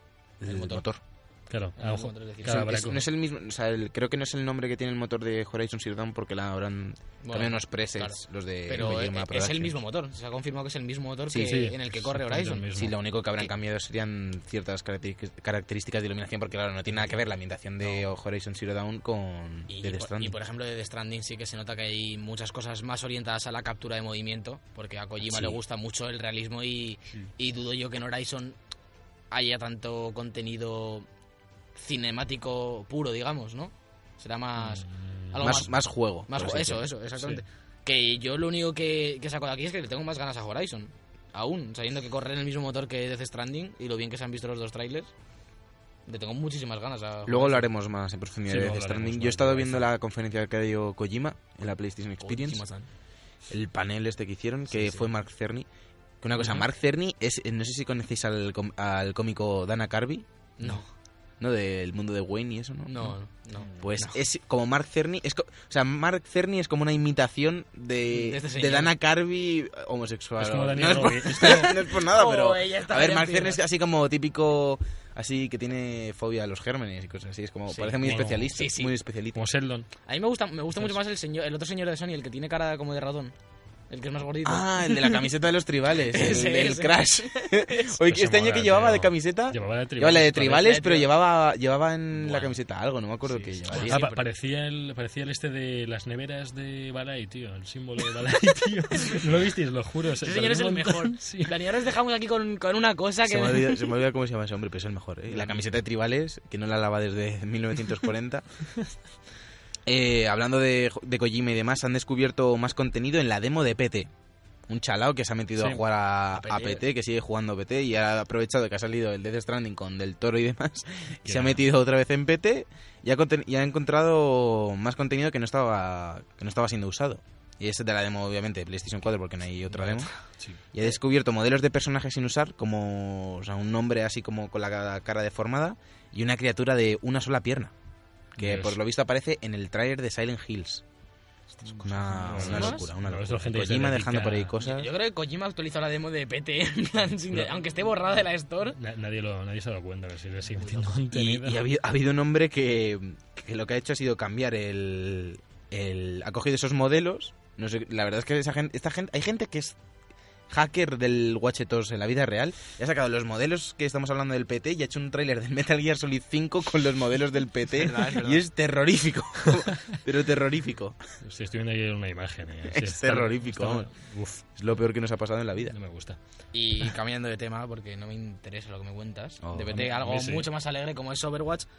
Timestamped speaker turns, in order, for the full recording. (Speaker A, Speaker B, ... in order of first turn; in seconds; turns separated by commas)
Speaker A: 0.4-1.0, Speaker B: 0.5-0.8, Speaker C: 1.5-3.0, Speaker B: 1.8-2.6, Speaker A: 2.5-9.7, Speaker B: 7.2-12.7, Speaker A: 11.3-11.6, Speaker C: 11.4-12.9, Speaker A: 12.7-20.4, Speaker B: 17.8-18.1, Speaker B: 19.7-28.6, Speaker A: 25.2-25.6, Speaker B: 29.3-31.1, Speaker B: 31.8-45.1, Speaker C: 34.6-35.7, Speaker A: 35.4-36.9, Speaker C: 37.2-37.4, Speaker B: 46.1-47.6, Speaker A: 47.2-52.6, Speaker C: 48.5-49.9, Speaker B: 52.2-52.9, Speaker A: 53.5-55.7, Speaker B: 54.7-55.1, Speaker A: 56.2-60.2, Speaker B: 60.6-60.9, Speaker A: 61.4-63.1, Speaker B: 62.9-64.2, Speaker A: 63.8-79.4, Speaker B: 68.1-68.9, Speaker C: 70.4-71.8, Speaker B: 71.4-73.6, Speaker B: 77.7-78.9, Speaker C: 78.0-78.7, Speaker C: 79.3-79.9, Speaker B: 80.1-83.3, Speaker B: 83.9-85.3, Speaker A: 84.4-94.0, Speaker B: 86.0-87.9, Speaker C: 88.0-90.8, Speaker B: 90.5-91.1, Speaker B: 92.1-92.5, Speaker B: 93.3-94.3, Speaker C: 93.8-101.5, Speaker B: 100.2-103.8, Speaker A: 103.2-108.5, Speaker B: 105.3-105.6, Speaker A: 109.8-114.1, Speaker A: 114.7-130.1, Speaker C: 115.6-115.8, Speaker B: 116.3-116.8, Speaker C: 121.2-121.7, Speaker B: 129.7-130.2, Speaker A: 130.7-137.7, Speaker C: 138.3-138.8, Speaker A: 138.4-140.8, Speaker B: 141.6-142.9, Speaker A: 141.8-144.9, Speaker C: 142.2-144.5, Speaker B: 144.6-148.8, Speaker C: 147.3-147.6, Speaker C: 148.7-151.6, Speaker B: 150.6-150.9, Speaker A: 151.1-159.8, Speaker A: 160.5-171.0, Speaker B: 167.7-168.4, Speaker C: 171.2-174.5, Speaker A: 172.7-173.9, Speaker A: 174.5-175.8, Speaker C: 175.7-176.2, Speaker B: 176.5-181.7, Speaker A: 179.4-179.8, Speaker C: 179.8-180.5